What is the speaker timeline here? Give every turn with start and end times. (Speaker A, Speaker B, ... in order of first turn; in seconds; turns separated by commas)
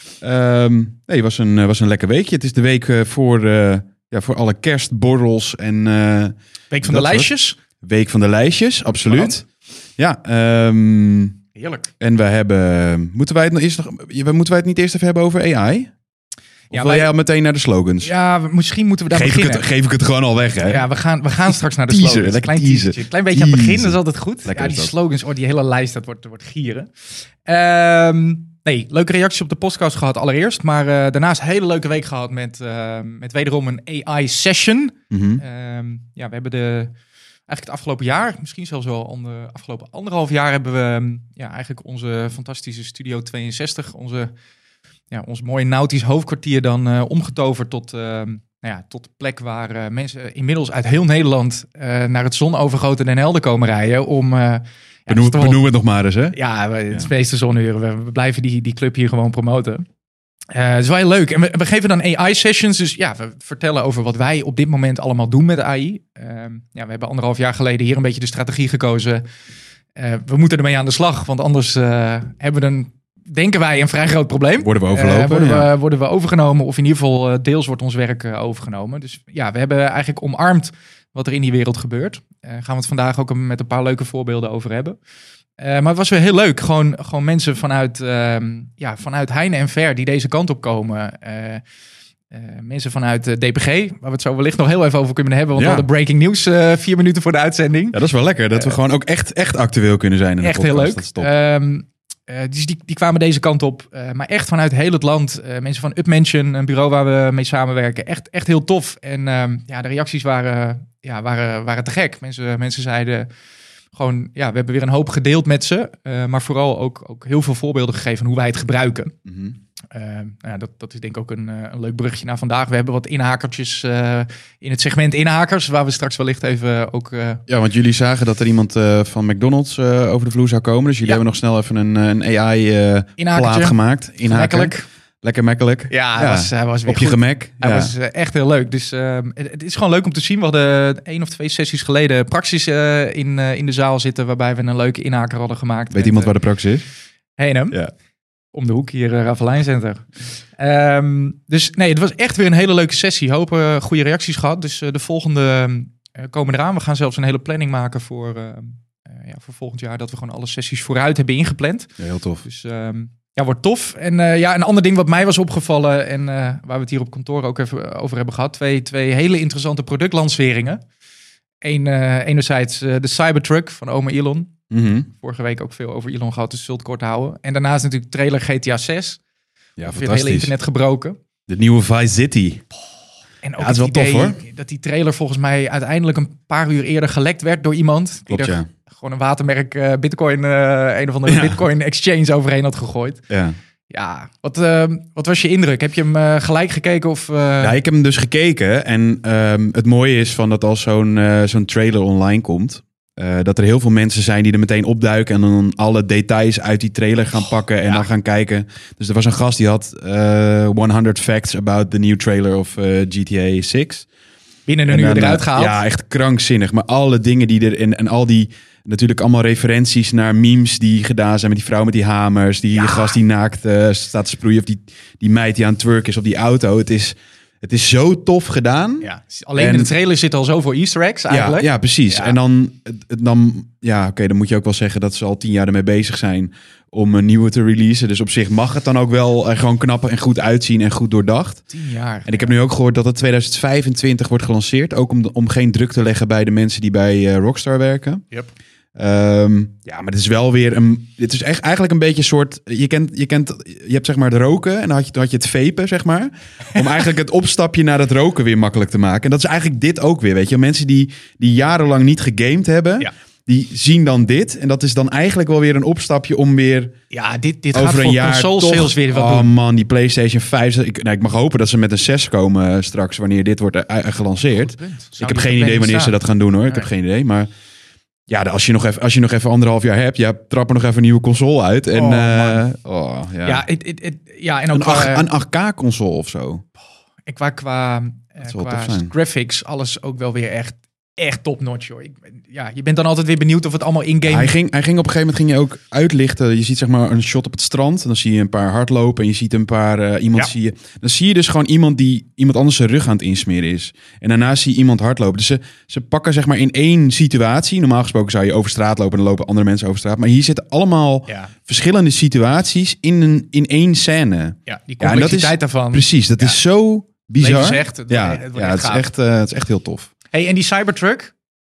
Speaker A: 0.2-7.3, Speaker B: 6.7-7.6, Speaker A: 7.8-9.4, Speaker B: 9.1-9.3, Speaker A: 10.0-11.4, Speaker B: 11.5-11.9, Speaker A: 12.0-15.9, Speaker B: 16.7-17.1, Speaker A: 16.7-18.1, Speaker B: 18.0-19.6, Speaker A: 19.1-20.8, Speaker B: 20.6-26.9, Speaker A: 21.9-24.9, Speaker B: 27.4-36.9, Speaker A: 35.1-35.4, Speaker B: 37.5-44.3, Speaker B: 45.1-55.6, Speaker A: 55.1-56.4, Speaker B: 56.3-59.8, Speaker B: 60.5-69.2, Speaker B: 70.0-85.0, Speaker A: 74.6-75.7, Speaker B: 85.6-91.6, Speaker B: 92.3-98.0, Speaker A: 95.5-95.9, Speaker A: 97.9-101.3, Speaker B: 98.5-98.8, Speaker B: 100.4-113.3, Speaker B: 113.9-119.1, Speaker A: 119.2-119.5, Speaker B: 119.9-127.4, Speaker A: 127.5-137.9, Speaker B: 133.2-134.9, Speaker B: 135.9-146.4, Speaker A: 145.9-146.8, Speaker B: 147.4-147.8, Speaker B: 148.5-150.0, Speaker B: 150.6-161.9, Speaker A: 162.0-162.4, Speaker B: 162.4-170.8, Speaker B: 171.6-174.5, Speaker A: 174.7-175.1, Speaker B: 175.1-179.2, Speaker A: 179.8-180.5, Speaker B: 179.8-181.2, Speaker A: 181.5-182.6, Speaker B: 183.4-193.3, Speaker A: 183.6-184.4, Speaker A: 188.3-188.7, Speaker A: 191.2-191.6, Speaker A: 193.3-193.6, Speaker B: 193.9-197.8, Speaker A: 197.6-214.1, Speaker B: 214.7-215.8, Speaker A: 214.9-229.9, Speaker B: 222.7-223.2, Speaker B: 229.0-232.4, Speaker A: 231.3-241.7, Speaker B: 241.7-242.5, Speaker A: 242.2-248.2, Speaker A: 248.9-266.9, Speaker B: 267.1-269.5, Speaker A: 267.7-277.5, Speaker B: 274.5-276.1, Speaker A: 278.3-283.6, Speaker B: 281.9-282.6, Speaker B: 283.4-285.3, Speaker A: 284.7-286.6, Speaker B: 287.3-294.5, Speaker A: 288.4-289.1, Speaker A: 294.3-320.1, Speaker B: 311.3-311.5, Speaker B: 314.7-316.6, Speaker B: 317.4-319.1, Speaker B: 320.3-321.3